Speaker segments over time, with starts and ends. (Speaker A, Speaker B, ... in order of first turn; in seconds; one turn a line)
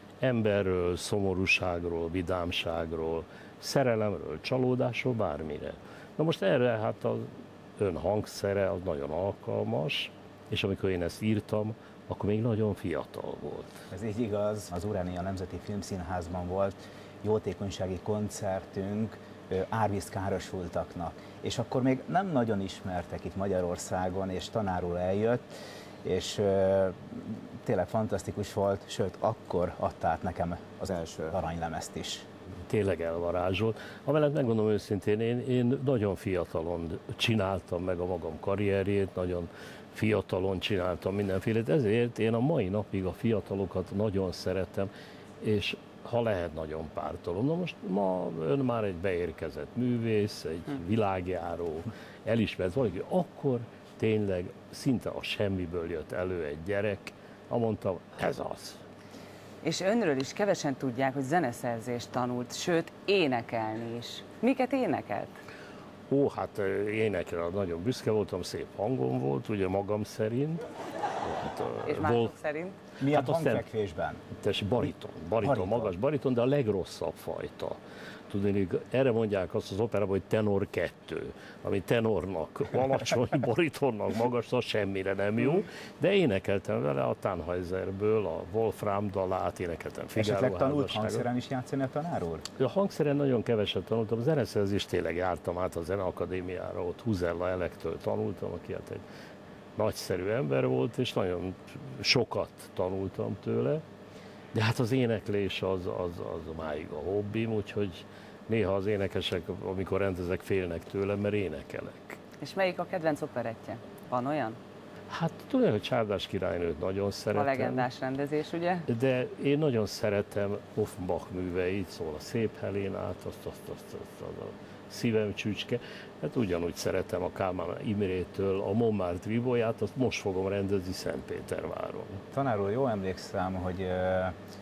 Speaker A: 0.2-13.8
Speaker B: 13.9-25.5
Speaker B: 26.0-32.3
Speaker A: 32.7-44.9
Speaker A: 45.4-58.8
Speaker C: 59.6-65.4
Speaker A: 66.1-70.6
Speaker A: 71.2-72.3
Speaker C: 71.9-72.8
Speaker B: 73.0-74.2
Speaker A: 73.1-73.7
Speaker A: 74.3-91.3
Speaker B: 74.8-75.9
Speaker B: 90.2-92.5
Speaker A: 92.6-99.0
Speaker A: 99.8-103.8
Speaker A: 104.5-112.2
Speaker C: 112.4-114.6
Speaker A: 115.1-117.8
Speaker C: 117.3-118.9
Speaker A: 118.9-132.2
Speaker B: 132.3-134.4